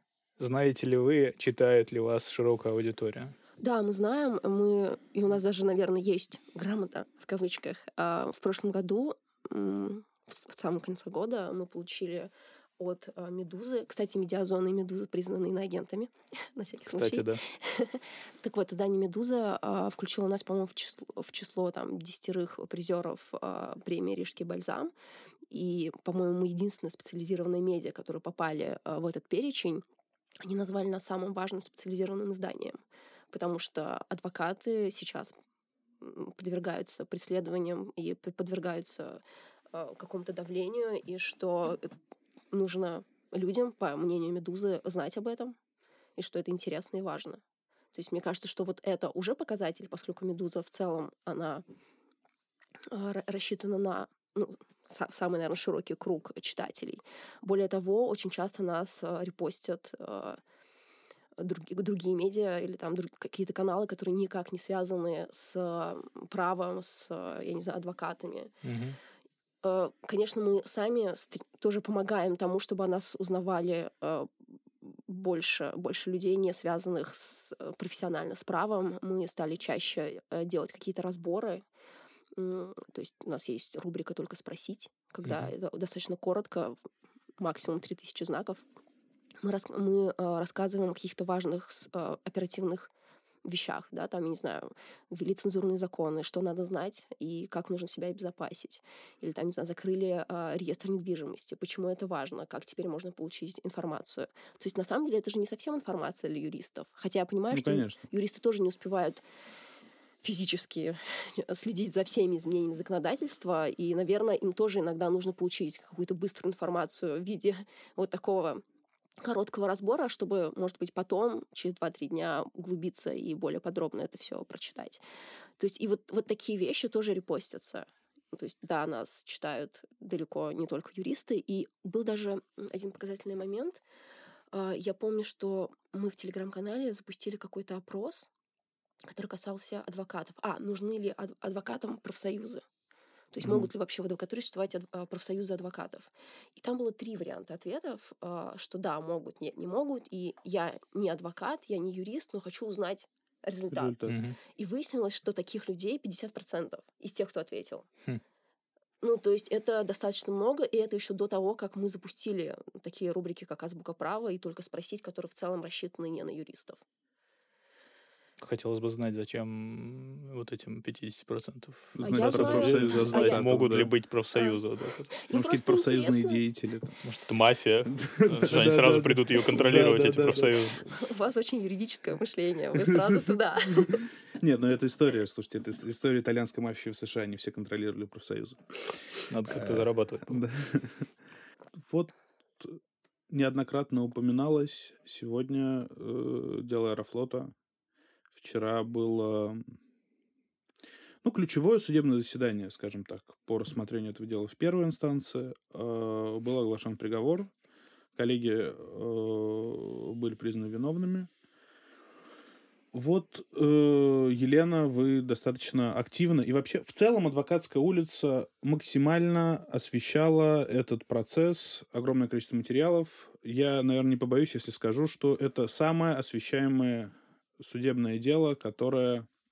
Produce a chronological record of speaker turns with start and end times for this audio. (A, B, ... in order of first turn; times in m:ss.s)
0:00.4-0:03.3 A
0:03.6-0:24.9 B
0:16.8-0:17.4 A
0:25.5-0:29.8 B
0:30.4-0:32.8 B
0:33.3-0:35.3 B
0:36.0-0:39.2 B
0:39.7-0:41.9 B
0:42.5-0:45.6 B
0:46.2-0:47.4 B
0:47.9-0:51.6 B
0:52.9-1:00.4 B
1:01.4-1:08.5 B
1:08.6-1:09.0 A
1:09.6-1:14.3 B
1:14.8-1:21.6 B
1:22.4-1:26.8 B
1:25.2-1:25.5 A
1:27.4-1:28.6 B
1:29.4-1:32.9 B
1:33.4-1:49.2 B
1:47.5-1:48.0 C
1:50.2-1:58.6 B
1:59.2-2:05.0 B
2:05.6-2:13.8 B
2:14.5-2:18.3 B
2:19.1-2:22.6 B
2:23.3-2:33.9 B
2:33.7-2:34.2 C
2:34.1-2:34.4 A
2:34.6-2:37.9 B
2:39.0-2:46.8 B
2:48.4-2:55.1 A
2:52.0-2:53.9 C
2:52.0-2:53.4 B
2:55.1-2:56.4 B
2:55.3-2:57.0 C
2:57.0-3:00.9 A
2:57.9-3:00.8 C
3:01.0-3:04.1 B
3:02.7-3:08.8 C
3:09.3-3:10.4 A
3:09.5-3:11.1 C
3:11.7-3:12.8 C
3:13.3-3:17.5 C
3:18.3-3:19.7 C
3:21.2-3:27.5 C
3:28.2-3:31.3 C
3:32.9-3:49.3 C